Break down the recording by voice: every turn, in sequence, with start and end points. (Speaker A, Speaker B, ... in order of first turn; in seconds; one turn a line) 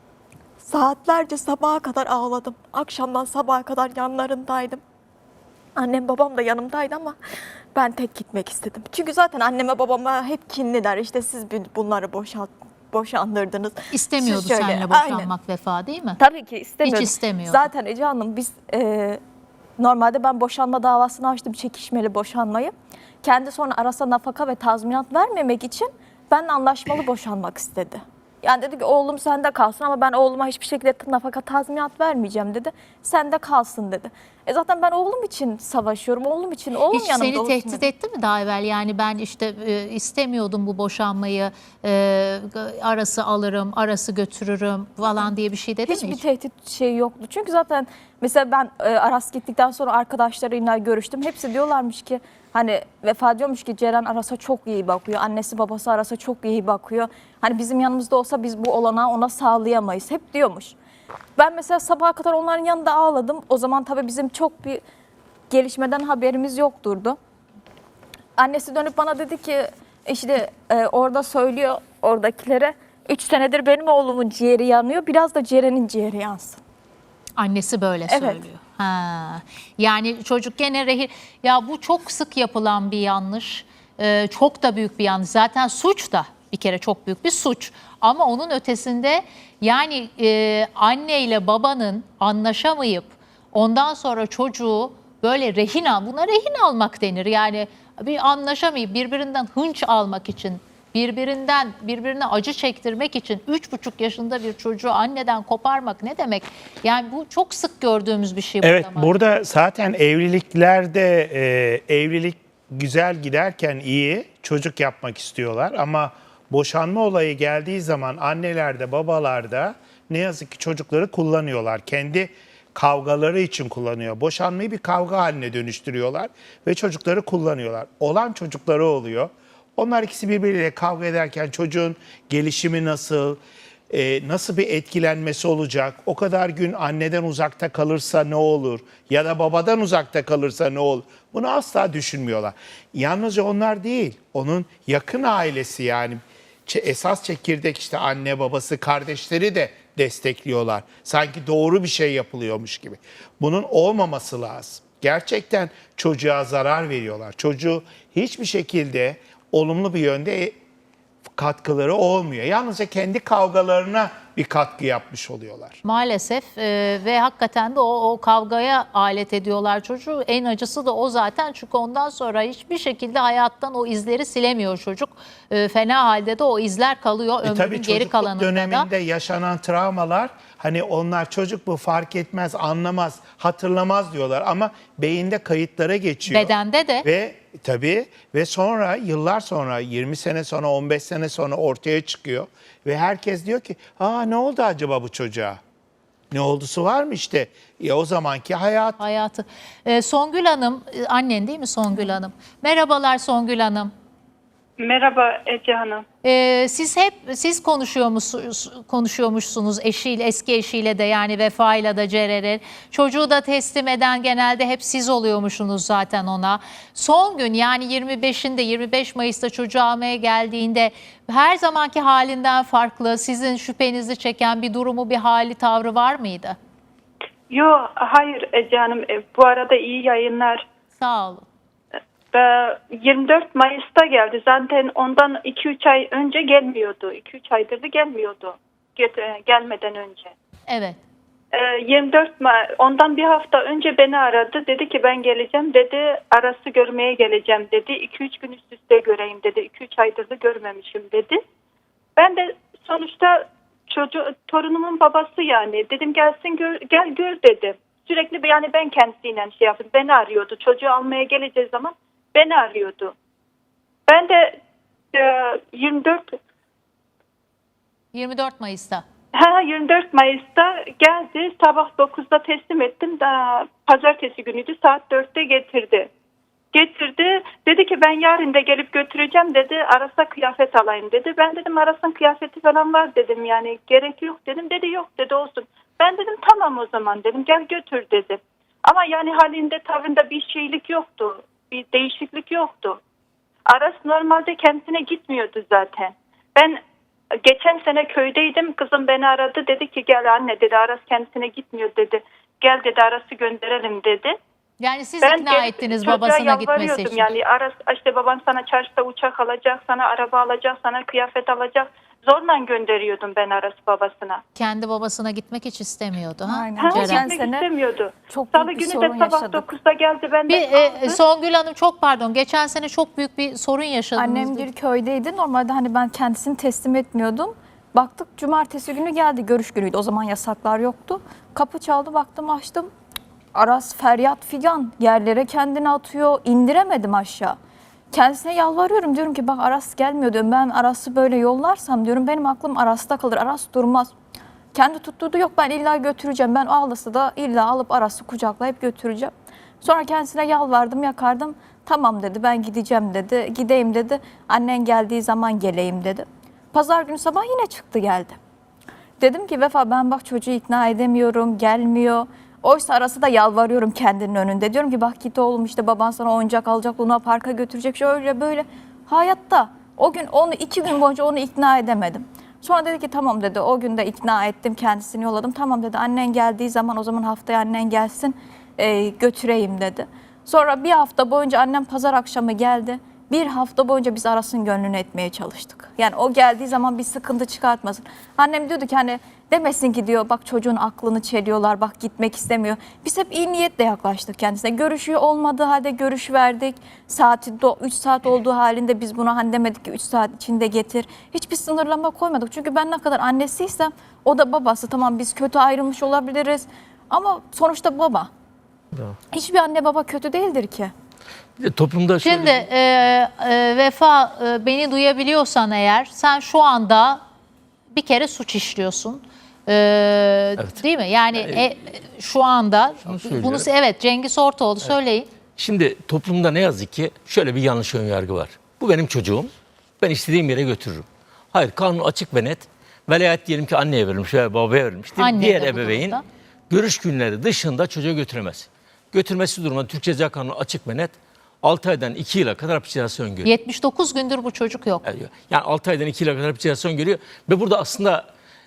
Speaker A: 0.6-4.8
Speaker A: 5.8-7.2
Speaker A: 7.8-15.3
Speaker B: 13.9-16.2
Speaker A: 16.2-19.2
Speaker B: 16.8-17.7
Speaker A: 19.8-37.9
Speaker B: 36.9-46.2
Speaker A: 45.9-60.8
Speaker A: 61.4-64.8
Speaker A: 65.5-67.2
Speaker A: 68.4-76.6
Speaker B: 77.4-109.1
Speaker A: 78.1-78.4
Speaker C: 108.6-160.6
Speaker C: 161.4-165.8
Speaker B: 165.8-178.9
Speaker C: 177.4-186.5
Speaker B: 186.3-187.1
Speaker C: 187.0-195.6
Speaker C: 196.3-199.0
Speaker B: 199.0-203.9
Speaker D: 204.8-206.0
Speaker B: 206.2-226.6
Speaker D: 227.5-230.6
Speaker B: 231.0-231.5
Speaker D: 232.3-240.3
Speaker B: 240.7-241.0
Speaker D: 241.5-251.4
Speaker D: 252.2-263.1
Speaker D: 264.1-264.6
Speaker D: 265.1-266.3
Speaker B: 268.1-269.0
Speaker D: 269.3-276.1
Speaker D: 276.7-293.0
Speaker D: 293.7-296.8
Speaker D: 297.4-304.3
Speaker B: 304.8-307.3
Speaker D: 305.2-314.4
Speaker B: 314.6-317.3
Speaker A: 316.5-317.7
Speaker D: 316.8-321.2
Speaker A: 318.3-319.7
Speaker B: 320.5-324.7
Speaker A: 324.2-332.9
Speaker A: 333.5-337.6
Speaker A: 338.1-344.1
Speaker A: 344.7-358.4
Speaker A: 359.2-408.3
Speaker A: 409.3-410.9
Speaker E: 411.6-412.6
Speaker B: 412.2-417.2
Speaker B: 417.9-425.3
Speaker E: 423.1-423.7
Speaker E: 425.6-436.2
Speaker B: 435.2-436.2
Speaker E: 436.7-443.5
Speaker B: 443.4-445.1
Speaker E: 445.1-448.3